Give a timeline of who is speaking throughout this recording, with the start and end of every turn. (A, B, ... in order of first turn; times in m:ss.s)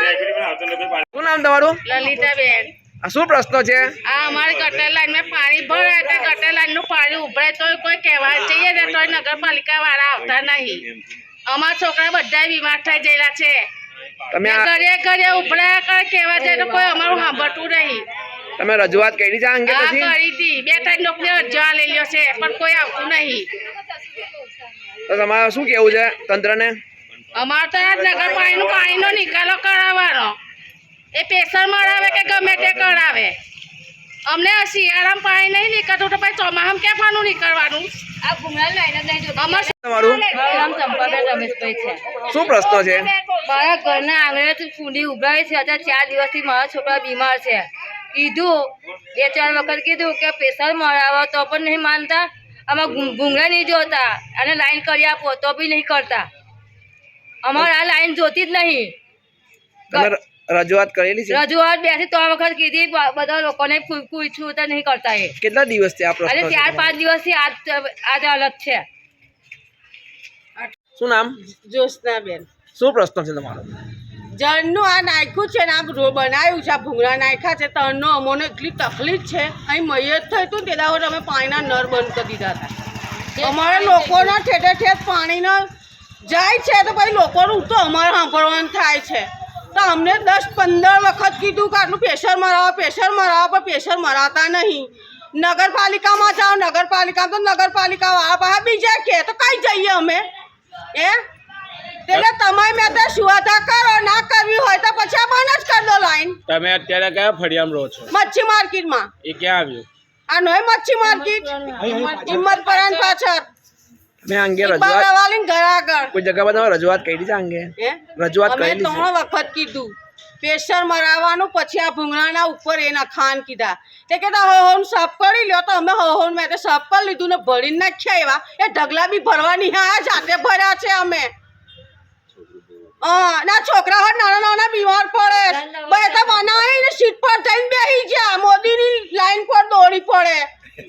0:01.1-0:01.8 A
0:01.8-0:02.7 B
0:03.0-0:04.0 A
0:04.0-0:10.9 B
0:11.5-0:13.6 B
0:14.3-0:14.7 A
0:14.4-0:18.0 B
0:18.6-0:20.2 A
0:19.7-0:23.5 B
0:25.1-0:26.8 A
0:27.3-0:30.3 B
0:31.1-0:33.4 B
0:34.2-0:38.0 B
0:38.2-0:42.2 C
0:39.4-0:39.7 B
0:39.8-0:40.2 A
0:42.3-0:43.1 A
0:43.0-0:56.3 C
0:57.4-0:58.9 C
0:59.9-1:01.4 A
1:01.3-1:05.3 C
1:05.4-1:06.9 A
1:06.2-1:08.8 C
1:11.0-1:11.4 A
1:11.4-1:12.5 D
1:12.7-1:13.7 A
1:14.3-1:22.7 D
1:23.4-1:24.3 B
1:23.4-1:25.7 D
1:26.2-1:40.2 D
1:40.9-1:41.2 D
1:42.1-1:46.4 D
1:46.5-1:48.1 E
1:48.1-1:49.1 D
1:49.2-1:49.9 E
1:50.3-1:53.5 D
1:51.2-1:53.0 C
1:51.8-1:52.2 E
1:51.9-1:52.4 B
1:54.2-1:55.1 A
1:54.6-1:56.1 D
1:56.1-1:59.1 A
1:57.8-2:11.3 D
2:13.0-2:20.5 D
2:15.4-2:16.6 C